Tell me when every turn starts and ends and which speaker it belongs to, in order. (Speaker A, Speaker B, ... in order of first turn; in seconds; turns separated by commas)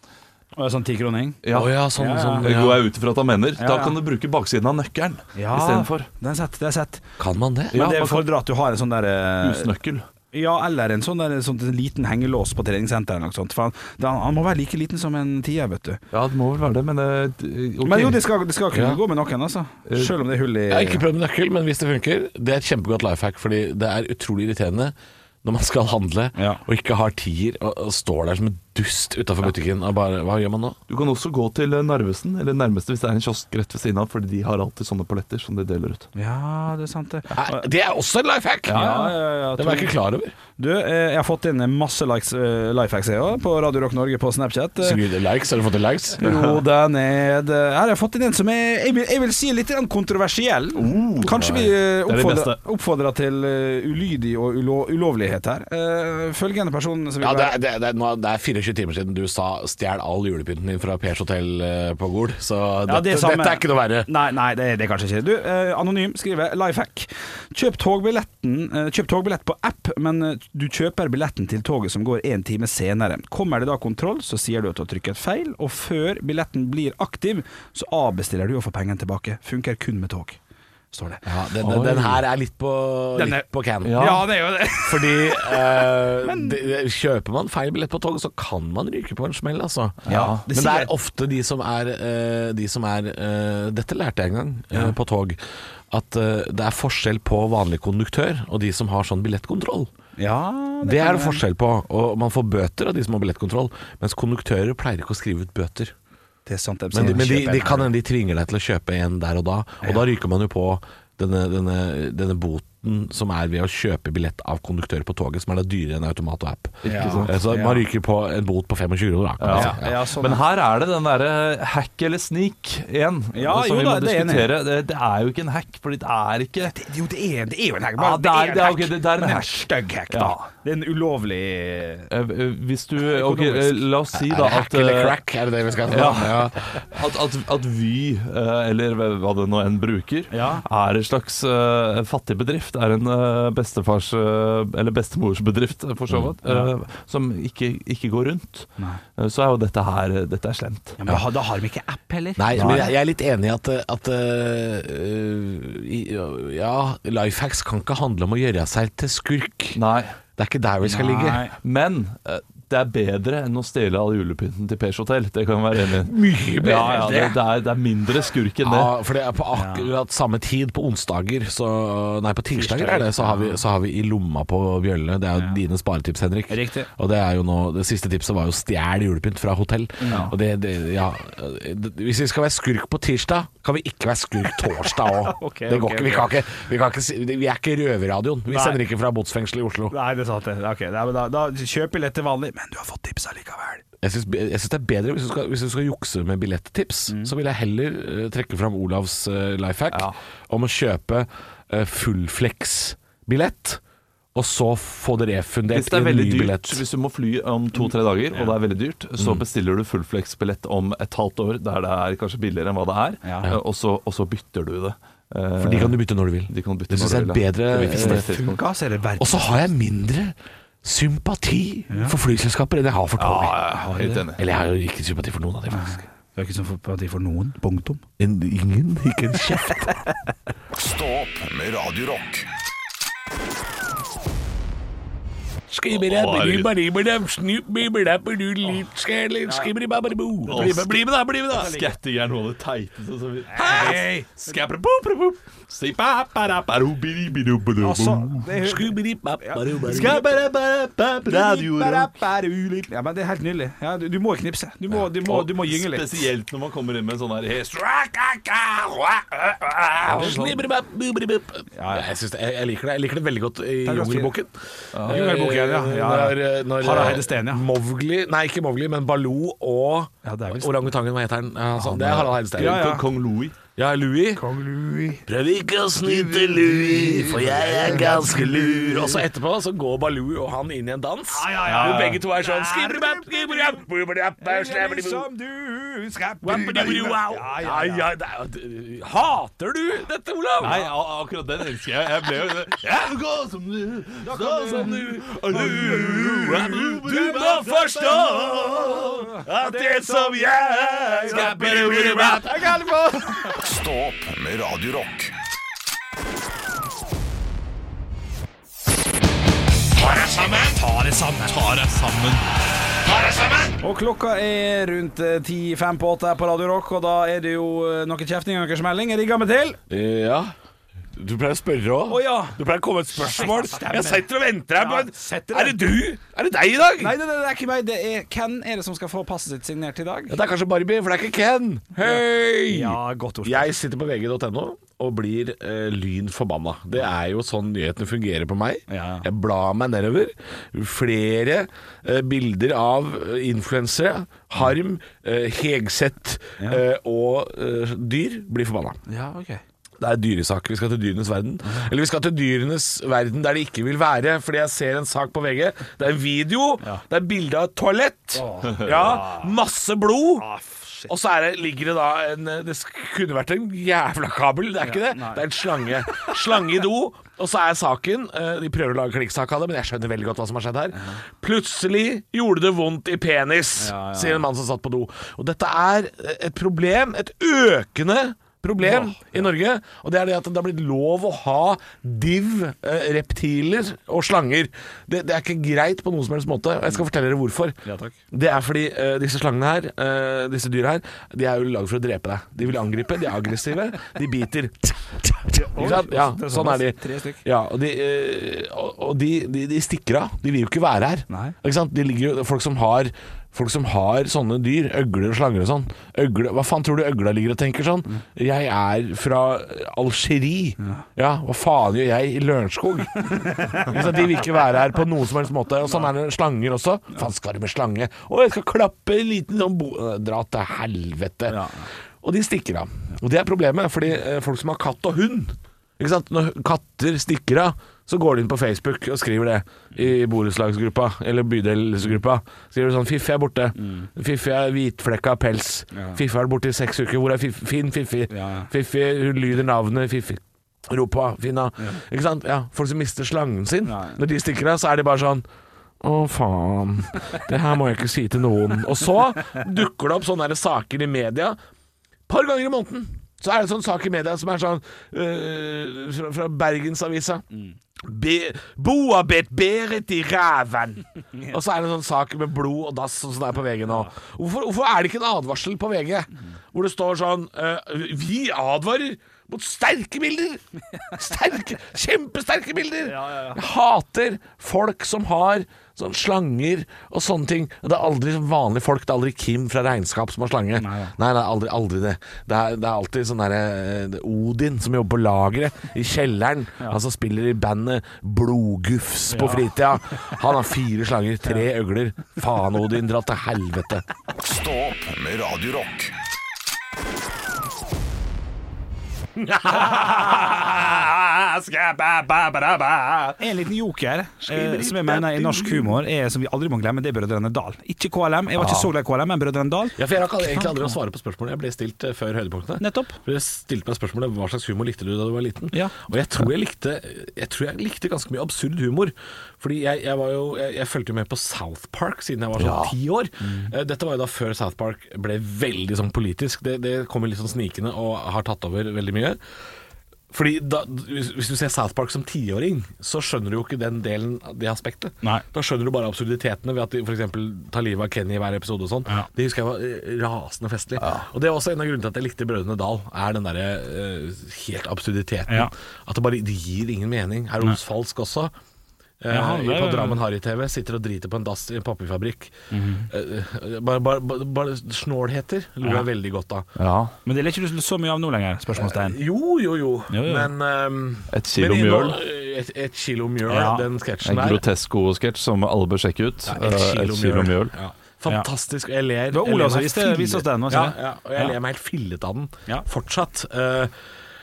Speaker A: 0.6-1.4, Speaker B: 1.4-1.7, Speaker C: 1.5-2.8, Speaker A: 2.0-2.5, Speaker B: 2.4-6.1, Speaker A: 3.6-4.0, Speaker A: 5.3-7.0, Speaker C: 7.2-7.9, Speaker A: 7.7-9.7, Speaker B: 7.7-8.2, Speaker B: 9.4-10.1, Speaker A: 10.3-16.0, Speaker B: 16.1-18.2, Speaker A: 17.8-21.0, Speaker C: 18.7-19.0, Speaker C: 20.7-30.8, Speaker A: 26.4-26.6, Speaker B: 30.9-36.1, Speaker A: 36.1-37.6, Speaker C: 37.3-38.8, Speaker B: 38.7-39.1, Speaker A: 38.7-39.9, Speaker C: 39.6-40.3, Speaker A: 40.6-45.0, Speaker C: 44.8-46.3, Speaker A: 46.2-57.5, Speaker B: 46.3-46.5, Speaker B: 50.8-52.6, Speaker C: 51.3-51.7, Speaker C: 57.2-64.1, Speaker A: 62.9-80.4, Speaker A: 80.9-81.2, Speaker C: 81.2-84.2, Speaker B: 81.6-82.2, Speaker A: 83.1-86.6, Speaker B: 83.8-84.2, Speaker C: 84.8-99.9, Speaker B: 90.0-90.4, Speaker A: 90.1-90.9, Speaker A: 100.2-101.4, Speaker C: 100.8-105.9, Speaker A: 106.5-107.9, Speaker C: 106.9-120.0, Speaker A: 116.8-117.8, Speaker B: 116.8-117.3, Speaker B: 119.4-126.7, Speaker A: 119.5-120.4, Speaker A: 123.3-124.5, Speaker A: 126.6-132.1, Speaker B: 128.0-130.5, Speaker B: 132.1-135.2, Speaker A: 133.0-133.8, Speaker C: 134.1-136.8, Speaker B: 135.9-151.0, Speaker A: 140.3-140.6, Speaker A: 146.4-146.7, Speaker A: 151.0-152.9, Speaker C: 152.4-159.8, Speaker B: 152.5-152.9, Speaker B: 159.7-160.1, Speaker C: 160.4-161.4, Speaker A: 160.8-161.5, Speaker B: 161.6-168.9, Speaker C: 165.9-167.4, Speaker A: 166.6-167.3, Speaker C: 168.6-189.9, Speaker A: 169.5-169.9, Speaker A: 172.5-173.6, Speaker A: 176.5-176.9, Speaker A: 180.0-180.3, Speaker A: 185.1-186.3, Speaker A: 188.5-188.8, Speaker A: 189.9-193.8, Speaker C: 194.0-203.8, Speaker A: 197.1-197.3, Speaker B: 199.9-200.2, Speaker C: 204.3-206.8, Speaker B: 205.7-218.6, Speaker C: 209.2-209.4, Speaker A: 213.2-213.5, Speaker C: 215.6-218.2, Speaker A: 217.8-219.5, Speaker C: 219.2-223.6, Speaker A: 221.9-222.2, Speaker B: 223.2-224.4, Speaker A: 223.7-224.2, Speaker C: 224.4-226.0, Speaker A: 225.7-228.0, Speaker C: 228.2-230.0, Speaker D: 230.7-232.5, Speaker C: 235.7-241.8, Speaker B: 235.9-236.7, Speaker B: 240.5-248.5, Speaker A: 241.6-241.8, Speaker A: 243.5-244.3, Speaker C: 243.6-244.0, Speaker A: 247.8-250.2, Speaker C: 248.6-250.3, Speaker B: 249.8-252.1, Speaker A: 251.2-256.3, Speaker B: 255.0-260.6, Speaker C: 260.0-272.8, Speaker A: 261.7-262.1, Speaker A: 263.8-264.3, Speaker B: 264.9-265.2, Speaker A: 265.1-267.6, Speaker A: 270.2-270.9, Speaker A: 271.8-273.0, Speaker B: 272.5-273.6, Speaker C: 273.8-274.4, Speaker A: 274.4-275.2, Speaker C: 275.2-285.3, Speaker A: 276.0-279.1, Speaker B: 277.8-278.4, Speaker A: 281.3-283.8, Speaker A: 284.4-288.1, Speaker C: 286.4-290.8, Speaker B: 290.6-299.4, Speaker A: 290.6-290.9, Speaker A: 294.2-295.0, Speaker C: 294.6-302.5, Speaker A: 295.6-296.0, Speaker A: 299.2-300.3, Speaker B: 301.1-302.5, Speaker A: 301.2-303.6, Speaker D: 303.5-305.4, Speaker C: 310.2-310.6, Speaker A: 310.7-311.6, Speaker B: 311.5-312.4, Speaker C: 313.1-313.5, Speaker A: 313.8-319.8, Speaker C: 319.9-320.5, Speaker C: 321.1-327.1, Speaker A: 322.1-322.6, Speaker A: 323.1-324.2, Speaker A: 324.8-325.9, Speaker A: 327.0-330.4, Speaker C: 330.3-349.0, Speaker A: 332.0-333.7, Speaker A: 338.9-339.3, Speaker A: 349.1-349.6, Speaker C: 350.0-360.4, Speaker A: 358.3-359.5, Speaker A: 360.4-361.1, Speaker C: 361.1-387.8, Speaker A: 364.8-365.4, Speaker A: 366.1-366.3, Speaker A: 370.9-371.2, Speaker A: 373.8-374.5, Speaker A: 378.8-379.5, Speaker A: 387.8-388.2, Speaker C: 388.3-421.6, Speaker A: 395.5-397.4, Speaker A: 401.3-401.5, Speaker A: 413.3-413.9, Speaker A: 421.5-421.9, Speaker C: 422.2-445.4, Speaker A: 433.8-434.1, Speaker A: 435.9-436.2, Speaker A: 438.3-438.7, Speaker A: 443.8-444.2, Speaker C: 446.0-451.6, Speaker C: 452.3-457.4, Speaker C: 458.0-494.0, Speaker A: 473.0-473.6, Speaker A: 480.8-481.1, Speaker A: 489.3-489.7, Speaker D: 494.3-496.1, Speaker C: 499.4-503.3, Speaker A: 503.4-510.9, Speaker C: 504.4-506.0, Speaker C: 509.9-529.4, Speaker A: 512.8-513.2, Speaker B: 522.6-522.9, Speaker A: 523.4-523.7, Speaker C: 530.3-548.5, Speaker B: 541.0-541.2, Speaker C: 549.2-552.5, Speaker A: 549.3-550.2, Speaker A: 552.7-553.1, Speaker C: 553.1-556.7, Speaker B: 556.8-557.1, Speaker A: 557.2-559.2, Speaker C: 558.7-564.6, Speaker A: 560.1-560.5, Speaker B: 561.3-562.2, Speaker A: 563.5-563.9, Speaker B: 564.2-567.7, Speaker C: 566.5-573.9, Speaker A: 569.3-571.5